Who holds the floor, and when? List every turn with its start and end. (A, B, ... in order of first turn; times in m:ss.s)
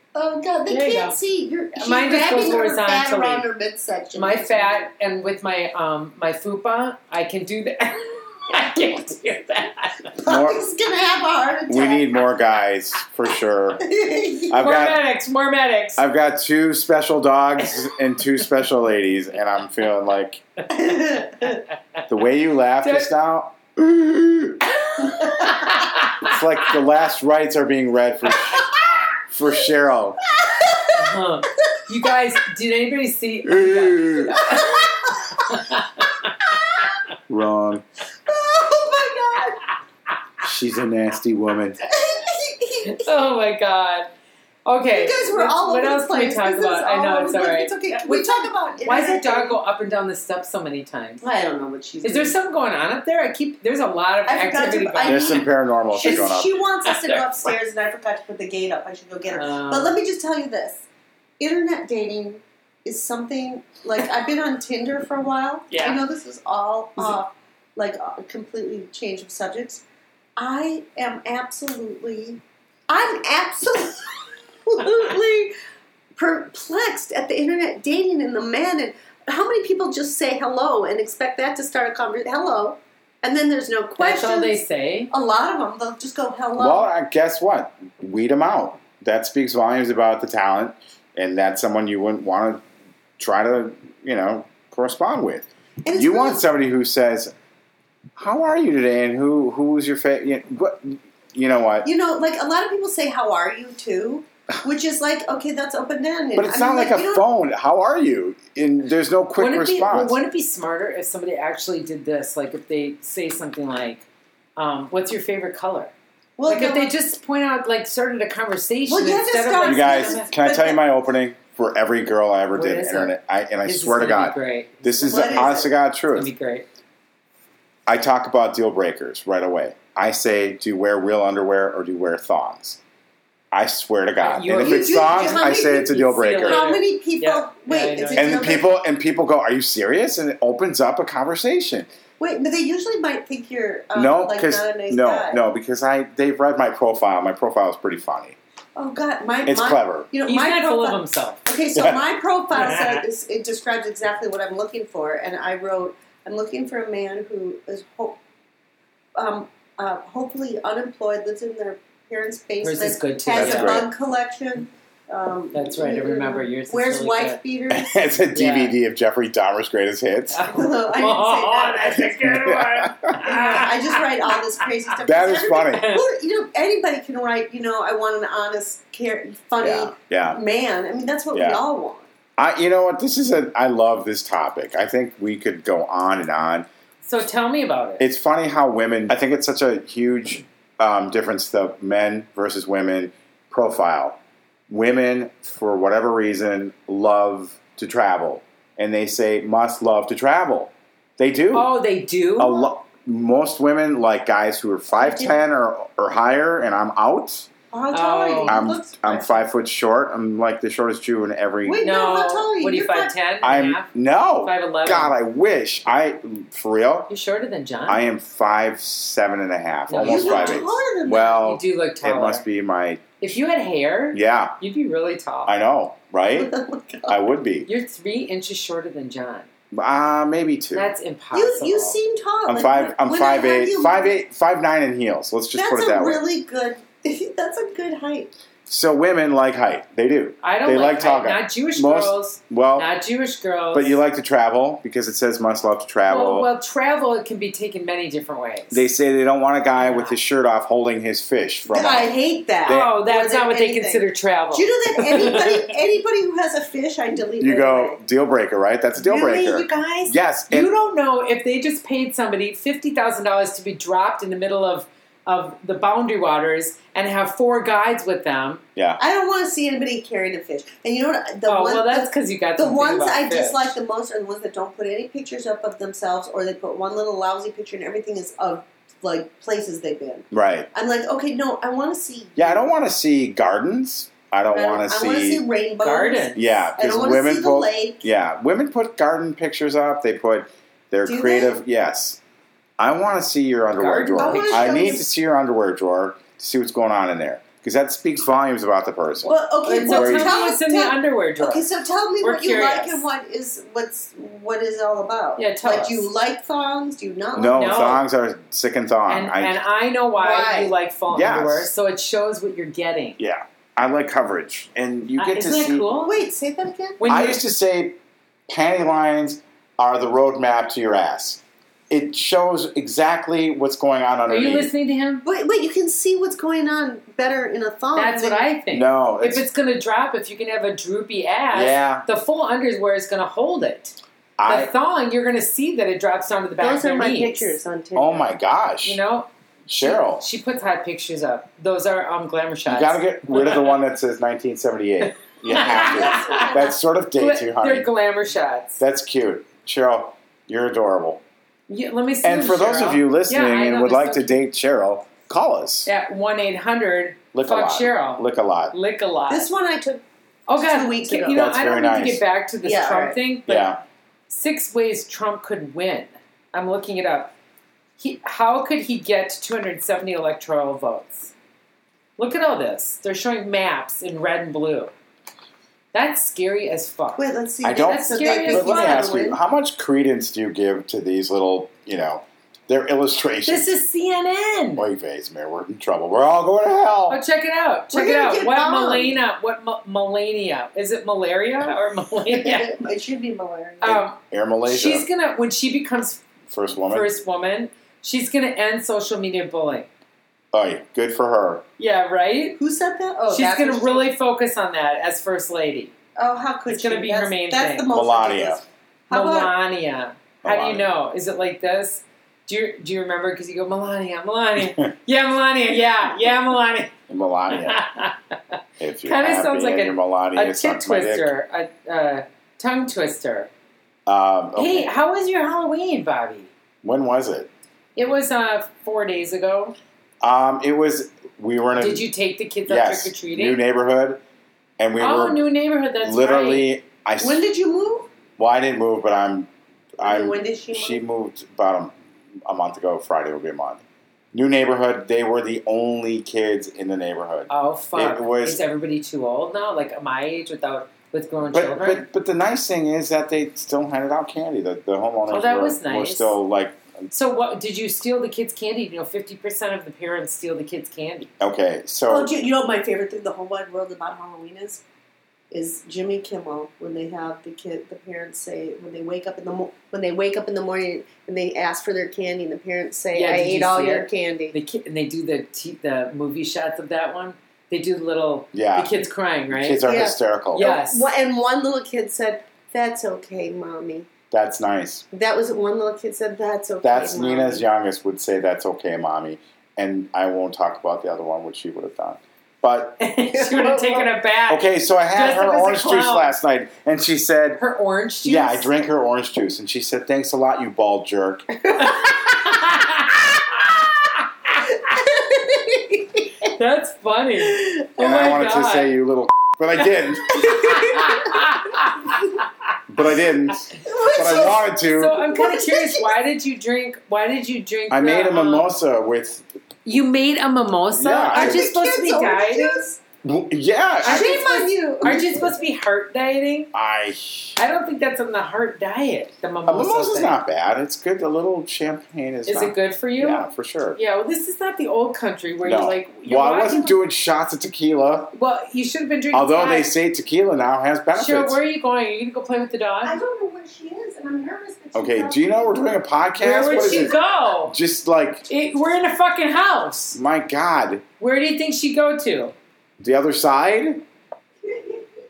0:00.1-0:04.8 A
0:00.7-0:01.2 B
0:01.8-0:03.5 B
0:04.2-0:10.1 B
0:10.2-0:12.1 A
0:10.2-0:10.6 C
0:11.7-0:13.8 C
0:13.8-0:14.6 A
0:14.5-0:15.0 C
0:14.6-0:16.0 B
0:16.0-0:20.4 C
0:20.7-0:21.6 A
0:22.1-0:24.6 C
0:22.8-0:23.1 B
0:24.9-0:26.4 B
0:25.2-0:25.4 A
0:26.2-0:28.7 C
0:28.6-0:28.9 B
0:29.3-0:30.2 C
0:30.4-0:31.0 A
0:31.0-0:36.5 B
0:33.5-0:34.4 C
0:34.4-0:35.3 A
0:37.3-0:37.8 C
0:38.3-0:39.6 A
0:40.4-0:41.8 C
0:41.8-0:43.0 A
0:42.8-0:44.1 B
0:44.6-0:51.3 B
0:44.9-0:49.6 A
0:51.2-0:52.4 A
0:52.0-0:55.4 B
0:54.3-1:00.8 A
0:55.0-0:56.6 C
0:56.0-0:57.5 B
0:59.3-1:00.0 B
1:01.4-1:09.8 A
1:05.7-1:06.0 B
1:10.4-1:14.1 A
1:14.6-1:15.5 A
1:16.2-1:26.8 A
1:24.0-1:25.1 B
1:26.6-1:32.6 C
1:33.2-1:37.3 C
1:35.8-1:36.4 A
1:38.2-1:41.9 C
1:41.8-1:47.2 A
1:46.4-1:50.2 C
1:49.4-1:54.0 B
1:54.6-1:55.9 B
1:56.4-1:56.9 A
1:56.5-2:00.3 B
1:58.9-2:00.8 A
1:59.6-2:06.3 C
2:02.6-2:03.1 B
2:03.6-2:05.5 B
2:05.0-2:05.7 A
2:06.1-2:06.7 B
2:07.9-2:12.8 C
2:13.5-2:16.6 C
2:14.2-2:18.6 B
2:14.5-2:18.7 A
2:18.2-2:21.9 C
2:22.2-2:25.4 A
2:24.0-2:28.4 C
2:28.8-2:38.2 A
2:29.4-2:30.1 C
2:30.2-2:31.4 B
2:31.8-2:32.0 C
2:32.5-2:33.1 B
2:39.2-2:48.0 A
2:42.6-2:43.9 B
2:43.3-2:43.9 C
2:45.5-2:47.4 B
2:47.7-2:50.4 C
2:48.3-2:48.8 B
2:50.3-2:54.9 B
2:50.5-2:52.2 A
2:52.2-2:53.2 C
2:53.2-3:02.1 A
2:55.0-2:56.0 C
2:55.7-2:56.0 B
2:59.6-3:00.4 C
3:01.3-3:01.6 C
3:02.4-3:06.7 C
3:07.0-3:08.0 B
3:08.0-3:14.2 C
3:14.7-3:21.7 C
3:21.5-3:22.7 B
3:22.4-3:27.5 C
3:24.9-3:25.4 A
3:27.7-3:29.4 A
3:27.9-3:28.7 B
3:28.4-3:32.0 C
3:31.6-3:33.1 A
3:31.8-3:33.9 B
3:33.4-3:37.1 C
3:34.4-3:35.1 B
3:37.1-3:38.0 B
3:37.9-3:43.0 C
3:39.9-3:40.7 B
3:40.0-3:41.4 A
3:41.3-3:42.4 B
3:43.2-3:45.5 B
3:44.1-3:44.6 C
3:45.5-3:46.5 C
3:46.3-3:47.2 A
3:47.1-3:47.7 C
3:47.7-3:49.5 B
3:49.7-3:50.9 C
3:50.7-3:52.0 B
3:51.3-3:54.2 A
3:52.5-3:56.2 C
3:55.5-3:58.3 A
3:58.7-4:02.9 C
4:00.4-4:04.0 B
4:03.7-4:06.5 C
4:06.1-4:08.9 B
4:08.7-4:12.9 C
4:09.8-4:10.2 B
4:11.7-4:18.0 A
4:12.7-4:15.7 B
4:17.4-4:20.7 C
4:19.0-4:28.6 B
4:29.0-4:42.6 A
4:31.5-4:33.8 B
4:40.3-4:40.7 C
4:42.4-4:45.4 C
4:44.5-4:48.0 A
4:45.8-4:46.4 B
4:46.4-4:52.2 C
4:51.1-4:51.6 A
4:52.8-5:00.4 C
4:53.8-4:55.0 B
4:54.2-4:55.1 A
4:59.2-5:07.9 A
4:59.6-5:01.7 B
5:02.2-5:03.0 B
5:05.4-5:06.1 B
5:07.4-5:09.6 C
5:07.5-5:08.0 B
5:09.1-5:13.2 B
5:10.2-5:10.7 A
5:11.1-5:11.7 C
5:13.2-5:15.8 C
5:15.2-5:16.1 B
5:16.0-5:17.1 A
5:17.0-5:17.4 B
5:17.0-5:24.7 C
5:24.3-5:25.2 B
5:25.2-5:28.5 A
5:28.0-5:34.0 B
5:28.7-5:29.4 C
5:31.5-5:32.1 C
5:34.4-5:34.7 C
5:34.5-5:37.5 B
5:36.6-5:38.3 A
5:38.0-5:39.0 C
5:38.8-5:39.3 B
5:39.7-5:40.2 C
5:39.8-5:43.7 B
5:42.7-5:47.9 C
5:45.5-5:46.6 A
5:45.5-5:48.8 B
5:48.8-5:51.2 C
5:51.7-5:54.4 B
5:52.2-5:55.9 C
5:55.9-5:59.5 B
5:57.3-5:58.7 C
5:59.3-6:00.0 A
6:00.5-6:03.8 B
6:00.6-6:01.4 A
6:01.3-6:02.2 C
6:02.6-6:03.2 A
6:03.5-6:03.8 C
6:04.3-6:07.3 B
6:08.0-6:11.3 B
6:12.2-6:14.9 B
6:15.9-6:17.2 B
6:17.2-6:19.4 A
6:17.6-6:23.7 C
6:17.8-6:19.0 B
6:23.4-6:24.9 B
6:24.8-6:27.2 C
6:27.1-6:32.7 B
6:27.9-6:29.2 A
6:32.3-6:34.0 A
6:33.8-6:36.2 B
6:33.8-6:35.1 C
6:36.5-6:37.1 C
6:36.9-6:39.9 B
6:40.5-6:41.6 C
6:41.8-6:42.6 B
6:42.6-6:44.1 A
6:43.3-6:45.9 B
6:46.2-6:49.5 A
6:46.7-6:47.9 B
6:47.9-6:48.6 C
6:49.1-6:56.9 B
6:50.4-6:50.9 C
6:54.6-6:54.9 C
6:57.1-6:57.8 C
6:57.5-7:03.5 B
6:58.8-7:01.3 C
7:04.1-7:04.9 C
7:04.6-7:06.5 B
7:06.8-7:07.5 C
7:08.0-7:09.8 B
7:10.2-7:12.1 C
7:11.8-7:13.6 B
7:12.7-7:14.2 C
7:14.8-7:15.4 C
7:15.0-7:16.7 B
7:16.0-7:17.4 C
7:17.2-7:18.1 A
7:18.4-7:19.5 C
7:20.0-7:21.9 C
7:20.0-7:21.0 A
7:22.4-7:23.8 C
7:24.3-7:28.6 C
7:27.5-7:32.0 B
7:31.5-7:36.8 C
7:35.3-7:36.4 B
7:37.1-7:41.3 B
7:41.4-7:42.3 C
7:42.1-7:44.8 A
7:45.5-7:54.6 A
7:53.1-7:59.8 B
7:58.5-7:58.9 C
7:59.5-8:00.8 C
7:59.8-8:04.1 A
8:00.5-8:01.1 B
8:04.3-8:05.1 C
8:05.1-8:07.6 A
8:06.8-8:13.0 C
8:13.0-8:16.4 B
8:13.5-8:14.1 A
8:14.5-8:17.6 C
8:17.6-8:18.8 B
8:18.2-8:21.6 C
8:21.8-8:23.1 B
8:24.7-8:26.4 A
8:26.4-8:28.9 B
8:28.0-8:30.9 C
8:30.4-8:32.5 B
8:30.8-8:31.1 A
8:32.9-8:35.3 C
8:33.8-8:36.1 A
8:34.9-8:38.7 B
8:37.9-8:39.5 C
8:39.8-8:42.8 B
8:41.0-8:41.6 C
8:41.3-8:43.0 A
8:43.2-8:44.5 C
8:44.0-8:45.5 A
8:44.0-8:46.7 B
8:46.7-8:47.6 C
8:47.6-8:50.4 B
8:49.6-8:54.0 C
8:52.5-8:57.0 B
8:55.6-8:58.3 C
8:58.3-8:59.9 B
8:59.3-9:01.6 C
9:01.1-9:03.2 B
9:03.0-9:05.8 A
9:04.9-9:07.1 C
9:06.4-9:07.8 B
9:06.4-9:07.5 A
9:07.7-9:08.5 C
9:08.5-9:10.2 B
9:10.1-9:11.0 C
9:11.2-9:12.5 B
9:13.0-9:14.0 C
9:14.6-9:15.0 A